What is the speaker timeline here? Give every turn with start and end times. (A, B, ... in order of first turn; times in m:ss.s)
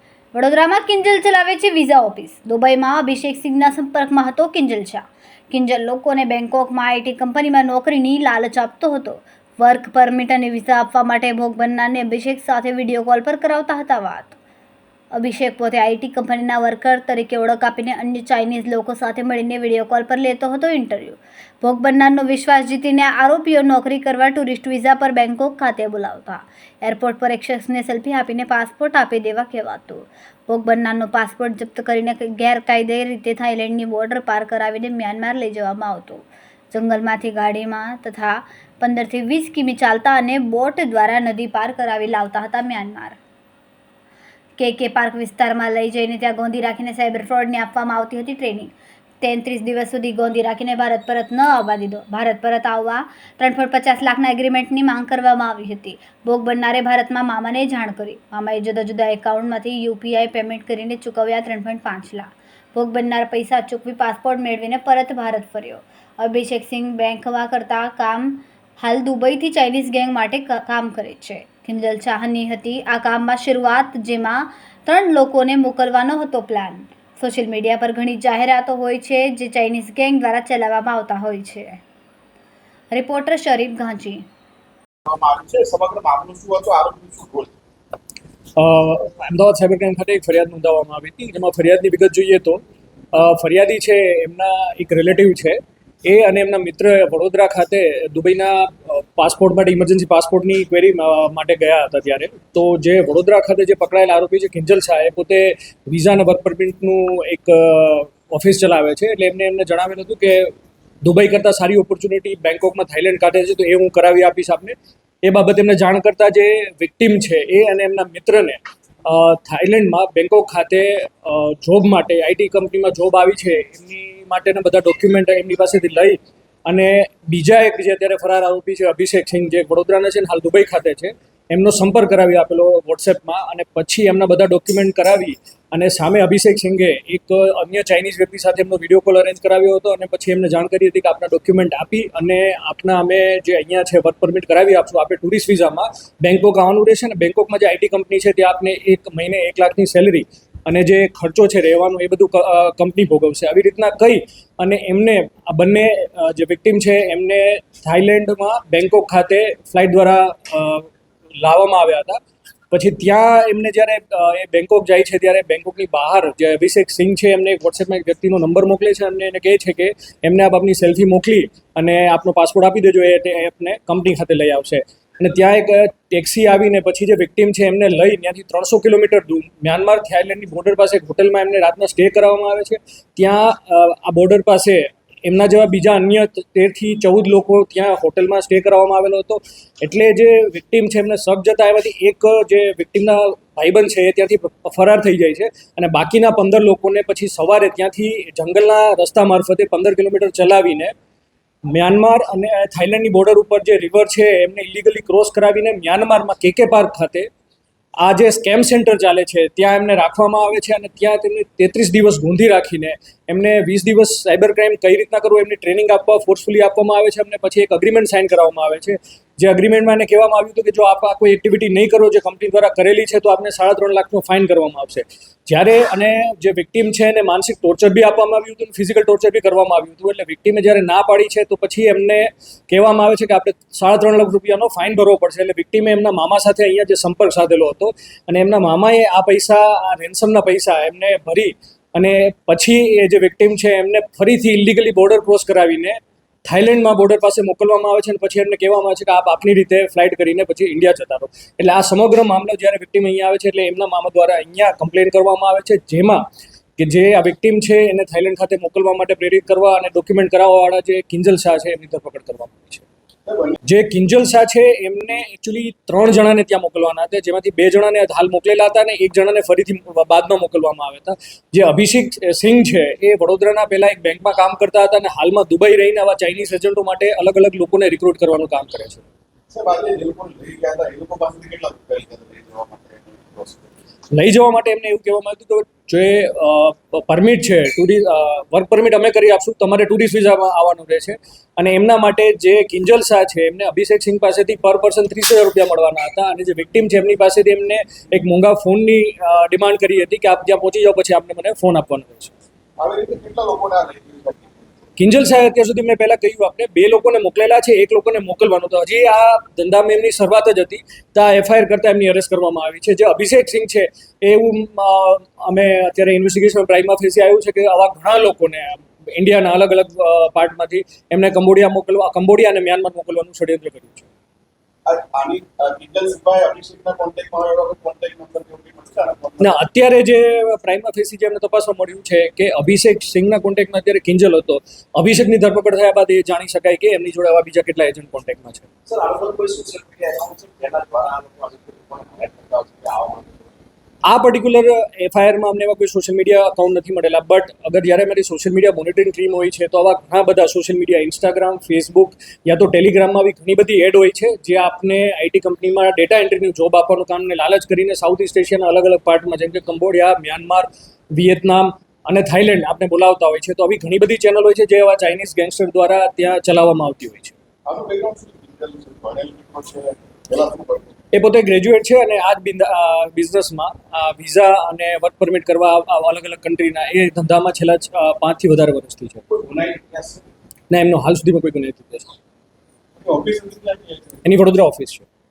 0:00.3-0:14.4 A
0:15.1-0:43.2 A
0:44.6-1:21.8 A
1:22.9-1:24.2 A
1:25.1-1:27.5 B
1:28.6-1:32.6 C
1:33.1-2:40.9 C
2:41.4-2:42.2 C
2:42.7-3:20.9 C
3:21.7-3:27.3 C
3:28.0-4:16.2 C
4:16.8-4:22.8 C
4:23.2-4:23.6 B
4:23.7-4:39.0 C
4:39.5-4:43.7 B
4:44.1-5:02.3 C
5:02.8-5:04.6 B
5:05.0-5:24.1 C
5:24.8-5:29.6 B
5:29.4-5:38.7 C
5:38.9-5:43.5 B
5:44.1-6:07.4 C
6:07.6-6:10.9 B
6:11.1-6:19.2 C
6:19.3-6:20.3 B
6:20.7-6:22.1 C
6:23.0-6:24.2 B
6:24.2-6:25.0 C